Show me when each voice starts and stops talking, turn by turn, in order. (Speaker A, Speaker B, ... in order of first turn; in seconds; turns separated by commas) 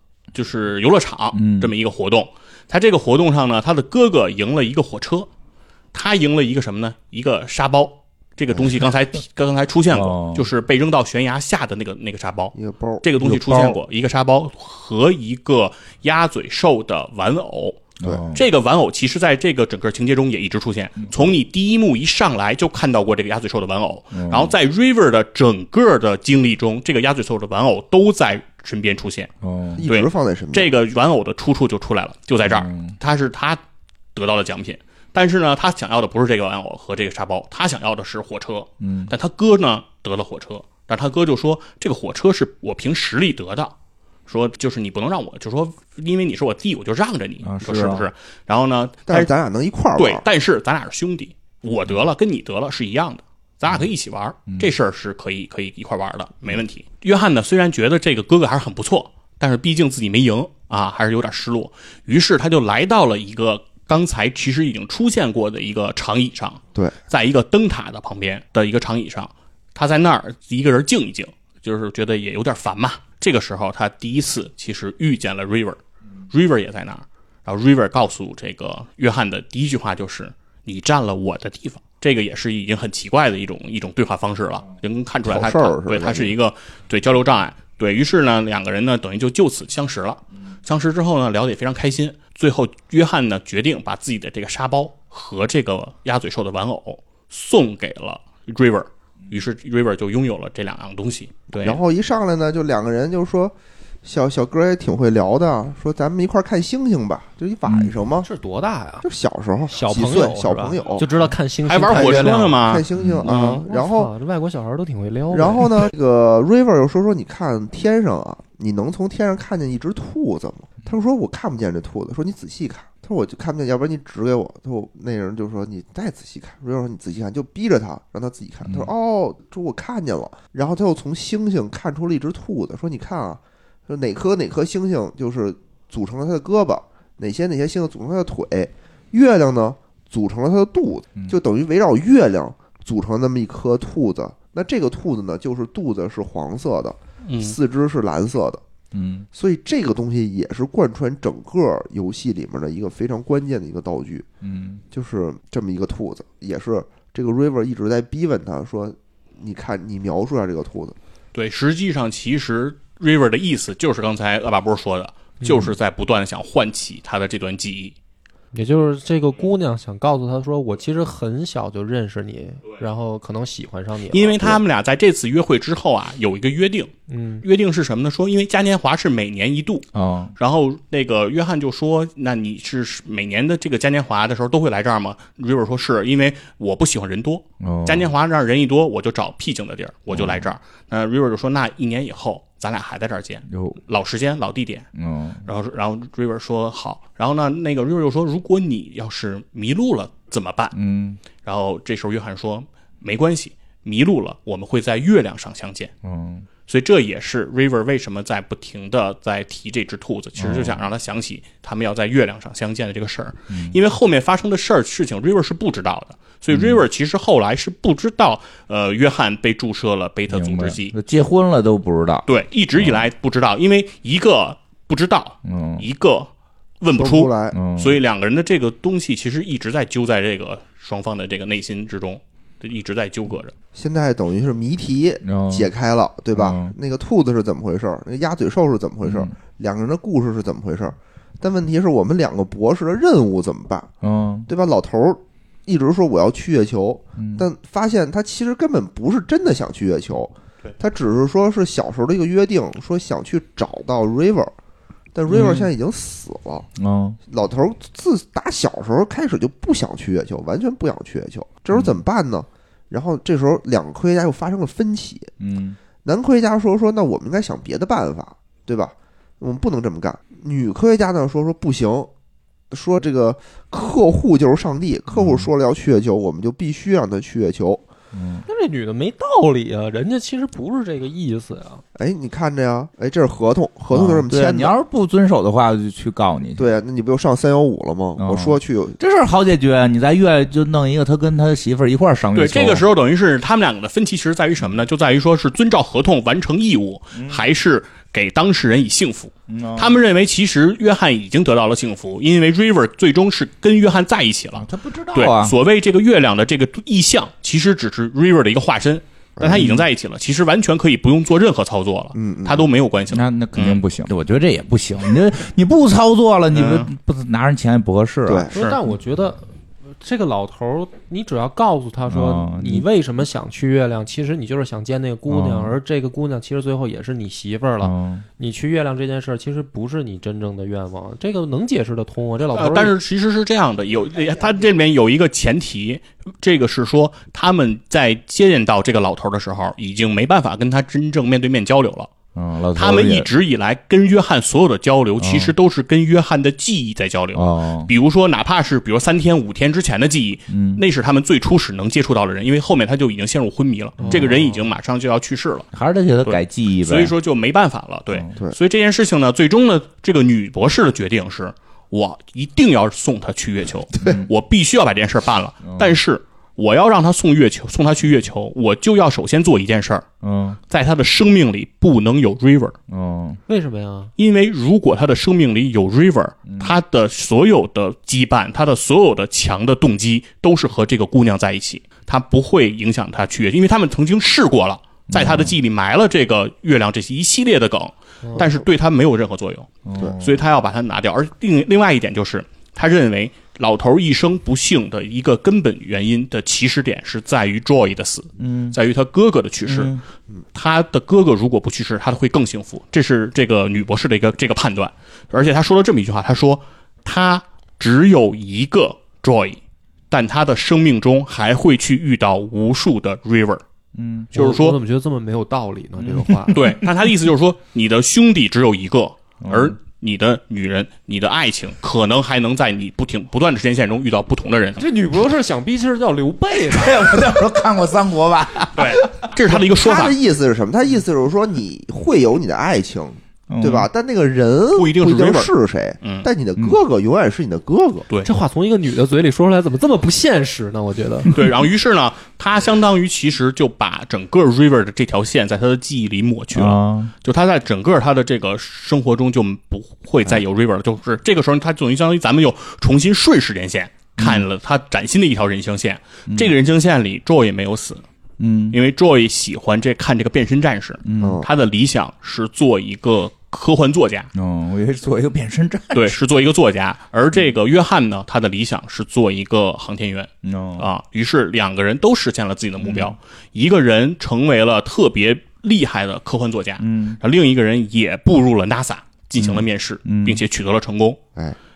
Speaker A: 0.3-5.3, Speaker B: 1.3-1.7, Speaker A: 5.9-29.3, Speaker B: 9.9-10.5, Speaker C: 12.5-13.0, Speaker B: 13.2-13.8, Speaker B: 18.0-18.4, Speaker B: 21.0-21.3, Speaker B: 24.1-24.5, Speaker B: 29.4-29.8, Speaker C: 29.7-30.7, Speaker A: 29.8-33.6, Speaker B: 32.4-33.0, Speaker A: 34.1-43.7, Speaker B: 38.8-39.1, Speaker A: 44.3-49.3, Speaker B: 47.4-48.1, Speaker C: 49.1-50.2, Speaker A: 50.0-75.8, Speaker A: 76.3-101.8, Speaker C: 85.2-86.3, Speaker C: 101.6-108.3, Speaker B: 107.7-107.9, Speaker D: 108.2-109.1, Speaker C: 109.0-111.0, Speaker D: 109.7-112.6, Speaker A: 111.6-113.6, Speaker C: 112.6-114.1, Speaker B: 113.0-113.3, Speaker D: 113.5-115.7, Speaker C: 115.3-148.6, Speaker B: 128.7-128.9, Speaker A: 147.3-147.6, Speaker B: 148.9-149.3, Speaker C: 149.3-154.2, Speaker B: 154.4-154.8, Speaker C: 154.9-160.9, Speaker A: 161.3-167.9, Speaker D: 165.4-165.7, Speaker D: 168.5-174.6, Speaker A: 174.1-176.9, Speaker D: 177.1-177.4, Speaker A: 177.4-194.9, Speaker B: 179.9-180.3, Speaker B: 187.6-188.1, Speaker B: 190.1-190.5, Speaker B: 193.5-193.8, Speaker B: 194.9-195.4, Speaker A: 195.4-200.8, Speaker B: 200.7-201.2, Speaker A: 201.4-205.9, Speaker B: 206.0-206.5, Speaker A: 206.7-220.9, Speaker B: 210.4-210.8, Speaker B: 213.5-213.8, Speaker B: 216.5-216.8, Speaker B: 220.3-222.2, Speaker A: 222.2-226.3, Speaker B: 222.8-223.0, Speaker B: 225.4-225.8, Speaker A: 226.8-233.5, Speaker C: 226.9-227.6, Speaker B: 227.5-228.0, Speaker C: 233.7-243.9, Speaker B: 235.2-235.7, Speaker B: 236.3-236.7, Speaker B: 239.0-239.3, Speaker B: 244.0-244.5, Speaker C: 244.5-254.5, Speaker B: 247.2-247.5, Speaker C: 255.1-256.7, Speaker B: 255.3-255.7, Speaker B: 256.8-257.2, Speaker C: 257.3-265.3, Speaker B: 261.7-262.0, Speaker B: 265.4-265.8, Speaker C: 266.0-272.1, Speaker C: 272.7-277.8, Speaker B: 275.1-275.5, Speaker B: 278.1-278.4, Speaker D: 278.4-281.8, Speaker C: 281.9-284.7, Speaker B: 283.9-286.6, Speaker C: 286.6-289.0, Speaker B: 288.2-292.9, Speaker A: 292.3-313.8, Speaker B: 297.1-297.4, Speaker B: 299.5-299.9, Speaker B: 304.5-305.6, Speaker C: 309.4-309.8, Speaker C: 312.1-312.7, Speaker B: 313.1-318.5, Speaker A: 316.5-316.9, Speaker C: 318.2-318.5, Speaker D: 318.5-333.0, Speaker B: 322.1-322.9, Speaker B: 325.3-325.8, Speaker B: 327.8-328.2, Speaker A: 332.5-342.1, Speaker B: 342.3-343.3, Speaker A: 342.7-355.7, Speaker B: 345.2-345.5, Speaker B: 347.3-347.9, Speaker B: 350.5-350.8, Speaker D: 354.0-354.4, Speaker B: 354.0-354.3, Speaker B: 355.7-357.1, Speaker A: 356.2-370.1, Speaker B: 364.0-364.3, Speaker B: 365.6-366.0, Speaker B: 370.2-370.6, Speaker A: 370.7-372.8, Speaker B: 372.9-373.4, Speaker D: 373.5-374.1, Speaker A: 374.2-400.0, Speaker B: 376.5-376.8, Speaker B: 385.1-385.5, Speaker B: 389.9-390.4, Speaker B: 398.4-398.8, Speaker B: 399.6-400.0, Speaker A: 400.5-409.6, Speaker A: 410.1-413.6, Speaker B: 413.9-414.3, Speaker A: 414.3-414.8, Speaker D: 414.3-416.6, Speaker B: 416.0-416.9, Speaker A: 416.5-424.8, Speaker B: 419.4-419.8, Speaker D: 424.8-427.3, Speaker B: 426.5-429.3, Speaker A: 428.7-430.2, Speaker C: 429.5-438.1, Speaker B: 433.5-433.9, Speaker A: 434.7-436.3, Speaker D: 438.2-441.3, Speaker A: 441.3-458.0, Speaker B: 446.5-447.1, Speaker B: 454.2-454.5, Speaker B: 456.3-456.5, Speaker B: 458.4-458.8, Speaker A: 458.7-464.3, Speaker B: 461.0-461.4, Speaker C: 461.2-461.5, Speaker B: 464.3-466.2, Speaker A: 465.9-481.2, Speaker B: 470.4-470.9, Speaker B: 472.8-473.1, Speaker B: 476.8-477.2, Speaker B: 479.4-480.4